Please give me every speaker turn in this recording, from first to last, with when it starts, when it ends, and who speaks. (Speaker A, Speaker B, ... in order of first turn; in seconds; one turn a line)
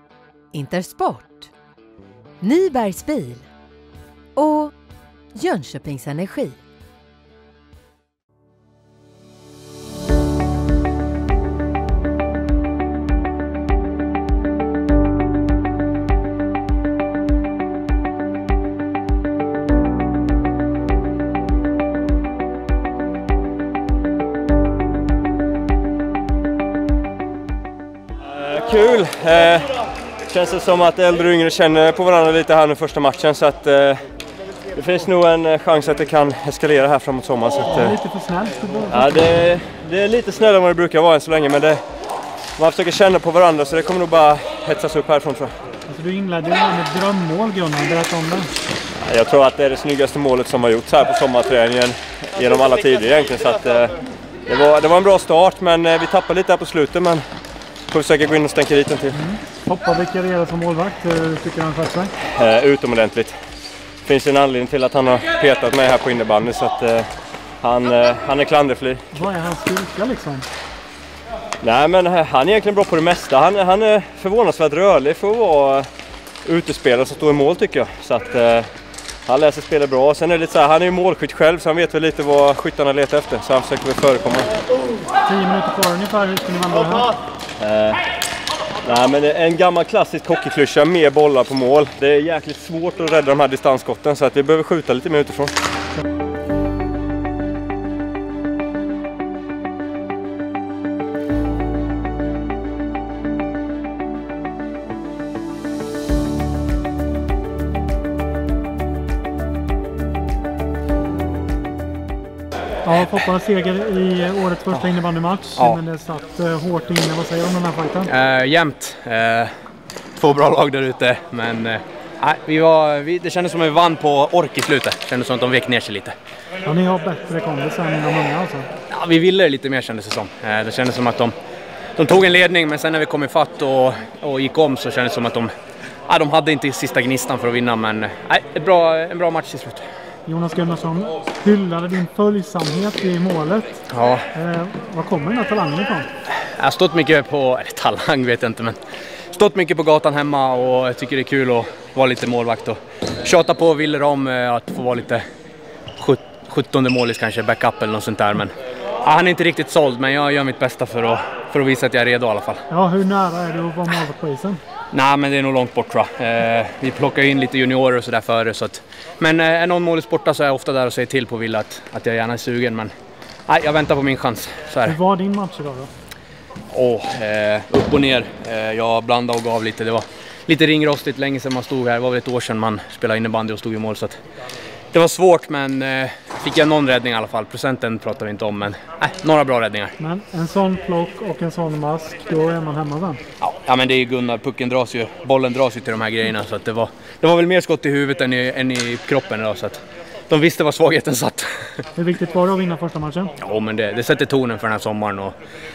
Speaker A: 0.5-1.5
Speaker A: 2.4-3.5
Speaker A: 4.3-4.7
Speaker A: 5.3-6.6
Speaker B: 28.3-29.7
Speaker B: 30.3-34.0
Speaker B: 34.7-38.0
Speaker C: 37.6-39.2
Speaker B: 38.9-41.8
Speaker B: 42.6-45.5
Speaker C: 45.9-48.5
Speaker B: 49.0-53.9
Speaker B: 54.5-57.2
Speaker B: 57.9-59.1
Speaker C: 59.1-62.1
Speaker B: 62.2-63.3
Speaker B: 64.0-67.1
Speaker B: 67.6-69.1
Speaker C: 69.1-70.5
Speaker B: 71.6-75.9
Speaker B: 76.4-78.7
Speaker B: 79.2-84.5
Speaker C: 85.2-87.1
Speaker B: 87.6-88.0
Speaker B: 88.8-95.5
Speaker C: 112.8-118.1
Speaker D: 114.7-115.0
Speaker D: 118.1-119.5
Speaker D: 120.1-126.1
Speaker C: 126.6-128.7
Speaker D: 128.9-131.3
Speaker D: 131.9-135.5
Speaker D: 136.1-139.8
Speaker C: 140.2-143.7
Speaker D: 143.9-144.3
Speaker C: 144.3-146.1
Speaker D: 146.4-148.8
Speaker D: 149.3-155.2
Speaker D: 156.0-162.6
Speaker C: 162.7-164.6
Speaker D: 164.9-172.9
Speaker D: 173.5-175.0
Speaker C: 174.8-175.9
Speaker D: 176.7-184.2
Speaker D: 184.9-189.9
Speaker C: 190.0-193.2
Speaker D: 193.4-201.5
Speaker C: 201.9-203.3
Speaker D: 203.4-205.3